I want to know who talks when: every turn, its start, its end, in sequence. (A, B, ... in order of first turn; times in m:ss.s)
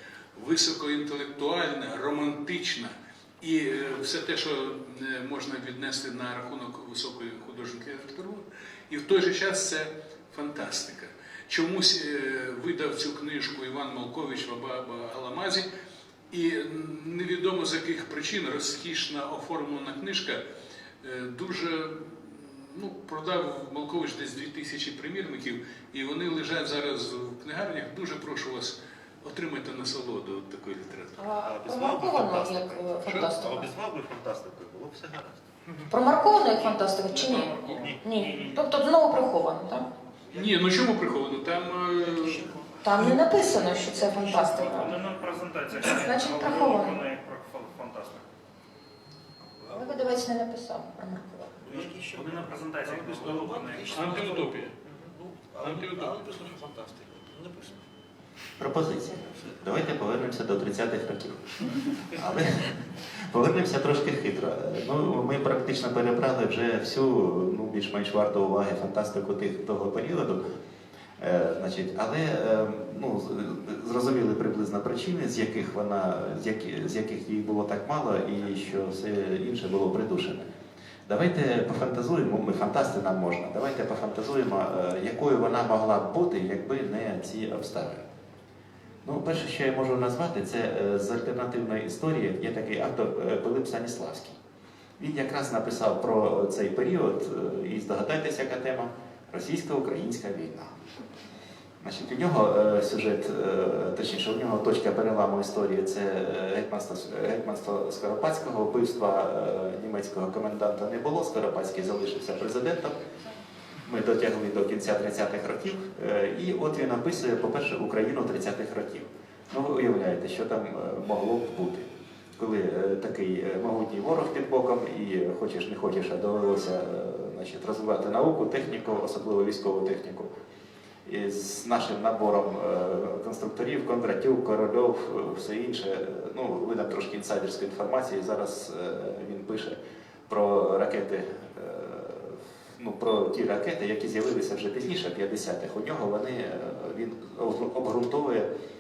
0:00.4-0:15.7 A
0:16.3-0:20.4 A
0:21.0-0:31.2 A
0:31.2-0:33.7 B
0:31.4-0:35.4 C
0:35.9-0:39.9 B
0:36.5-0:38.8 D
0:37.7-0:38.0 C
0:40.3-0:42.4 A
0:42.0-0:43.1 E
0:42.8-0:45.0 B
0:44.3-0:44.7 E
0:44.7-0:48.3 D
0:45.8-0:47.0 B
0:49.6-0:50.0 E
0:49.7-0:51.6 B
0:51.6-0:57.8 E
0:51.7-0:54.6 D
0:53.9-0:54.7 A
0:55.6-0:56.1 A
0:58.6-1:01.4 C
1:02.1-1:02.7 C
1:03.3-1:10.4 C
1:11.2-1:20.5 C
1:21.1-1:28.1 C
1:29.0-1:34.4 C
1:35.0-1:40.8 C
1:41.8-1:53.0 C
1:53.8-2:10.3 C
2:11.0-2:28.5 C